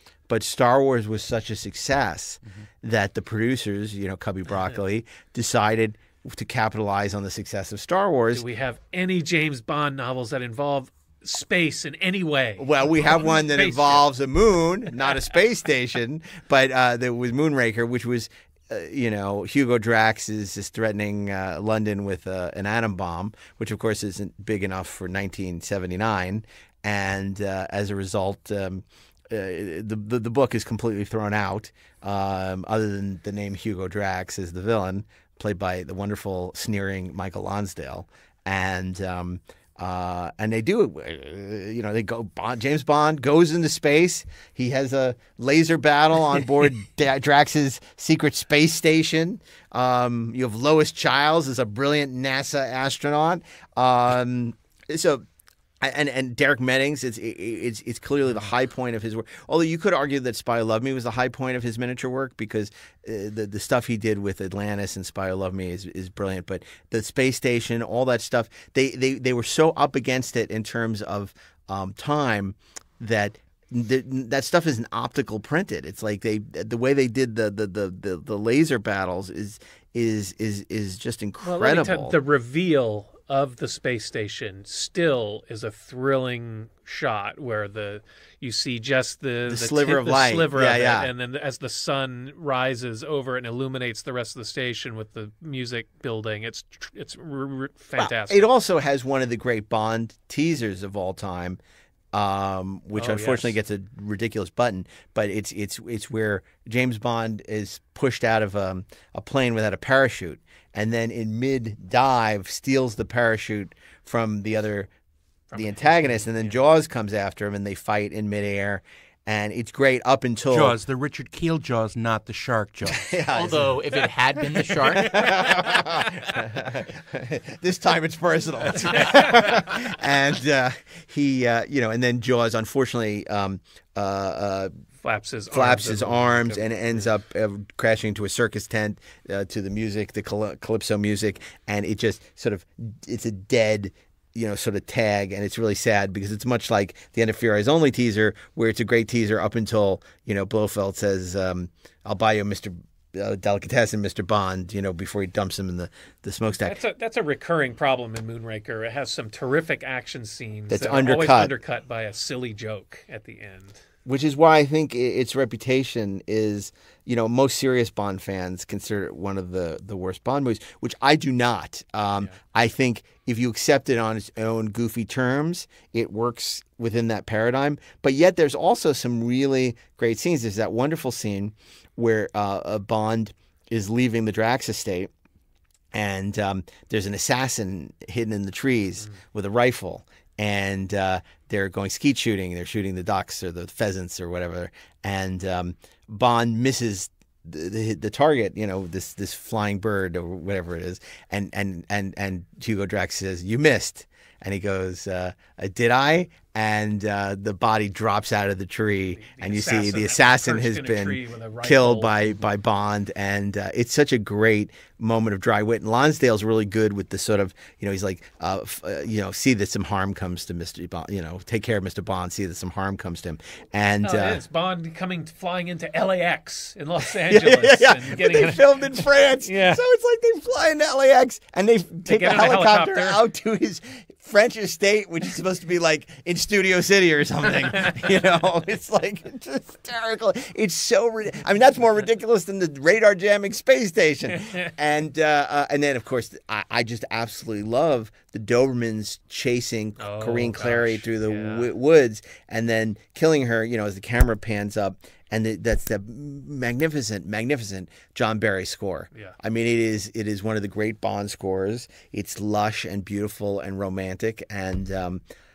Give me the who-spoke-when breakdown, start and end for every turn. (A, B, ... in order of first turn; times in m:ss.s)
0:00.3-0:08.4 A
0:08.3-0:14.1 B
0:12.6-0:55.2 A
0:55.8-1:22.2 A
1:21.4-1:38.5 B
1:29.5-1:31.1 A
1:38.0-1:41.6 A
1:42.1-1:54.9 A
1:43.0-1:43.6 B
1:55.5-1:56.6 B
1:55.5-2:00.8 A
2:00.5-2:03.1 C
2:02.9-2:03.8 A
2:03.3-2:05.7 D
2:04.6-2:14.7 A
2:15.0-2:17.1 B
2:15.5-2:36.8 A
2:36.6-2:43.8 B
2:40.7-2:41.5 A
2:44.1-3:05.1 A
3:05.9-3:44.4 A
3:29.2-3:32.4 B
3:44.0-3:49.8 B
3:47.2-4:25.2 A
3:52.1-3:53.2 B
4:10.0-4:11.7 B